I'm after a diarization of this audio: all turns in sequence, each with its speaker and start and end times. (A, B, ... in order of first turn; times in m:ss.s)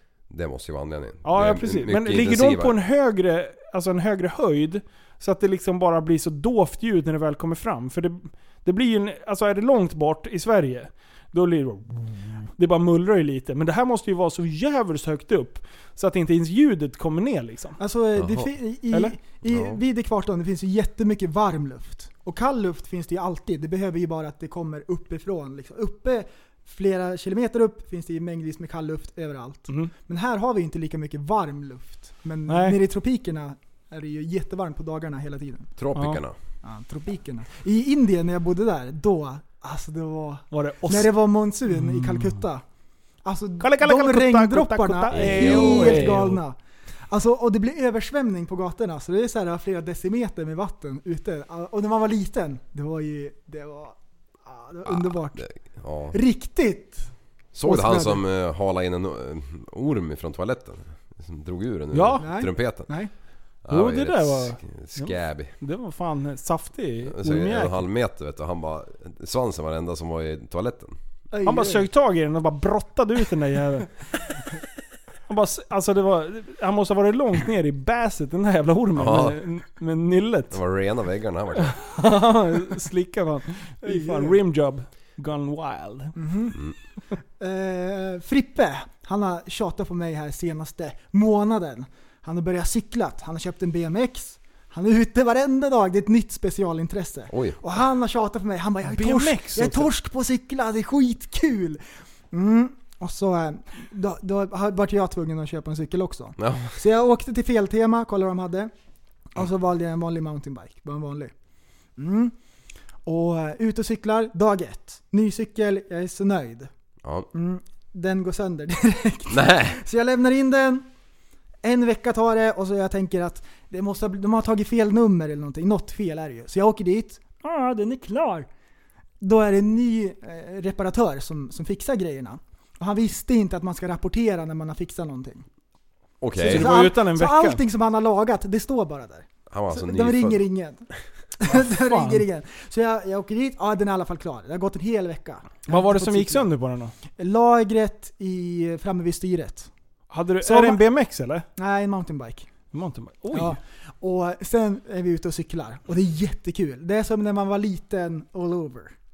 0:00.3-0:02.8 A
0:01.2-0:17.8 B
0:17.8-0:35.7 C
0:18.2-0:18.5 A
0:18.9-0:19.2 B
0:19.5-0:19.8 A
0:32.5-0:32.8 B
0:35.8-0:36.4 A
0:36.0-0:36.2 B
0:36.6-0:42.6 C
0:40.5-0:41.1 B
0:43.2-0:46.6 C
0:43.6-0:46.4 B
0:45.1-0:46.3 A
0:47.1-0:55.5 C
0:54.8-0:56.2 A
0:56.1-0:57.1 C
0:57.5-1:03.0 A
0:57.6-0:58.2 C
1:01.9-1:02.3 B
1:02.2-1:03.1 C
1:03.6-1:05.5 A
1:03.7-1:07.8 B
1:07.0-1:11.0 A
1:11.3-1:11.8 C
1:11.4-1:14.0 B
1:15.3-1:20.6 B
1:19.0-1:19.4 A
1:20.5-1:21.8 A
1:21.6-1:26.2 B
1:23.8-1:24.4 C
1:26.2-1:26.6 C
1:27.4-1:48.7 C
1:37.3-1:37.6 A
1:38.8-1:39.9 B
1:46.4-1:46.8 A
1:49.3-1:51.3 C
1:52.0-1:52.3 C
1:53.0-1:56.7 C
1:57.3-2:00.8 C
1:59.3-1:59.8 A
2:01.6-2:07.2 C
2:07.4-2:08.5 B
2:09.2-2:15.4 C
2:16.2-2:16.9 A
2:16.4-2:20.8 C
2:16.4-2:17.6 B
2:19.5-2:20.4 A
2:21.4-2:26.5 C
2:21.5-2:22.2 B
2:25.6-2:26.9 B
2:27.1-2:29.7 C
2:30.1-2:31.5 B
2:30.4-2:30.8 C
2:31.6-2:32.5 C
2:32.7-2:33.6 B
2:33.3-2:38.9 C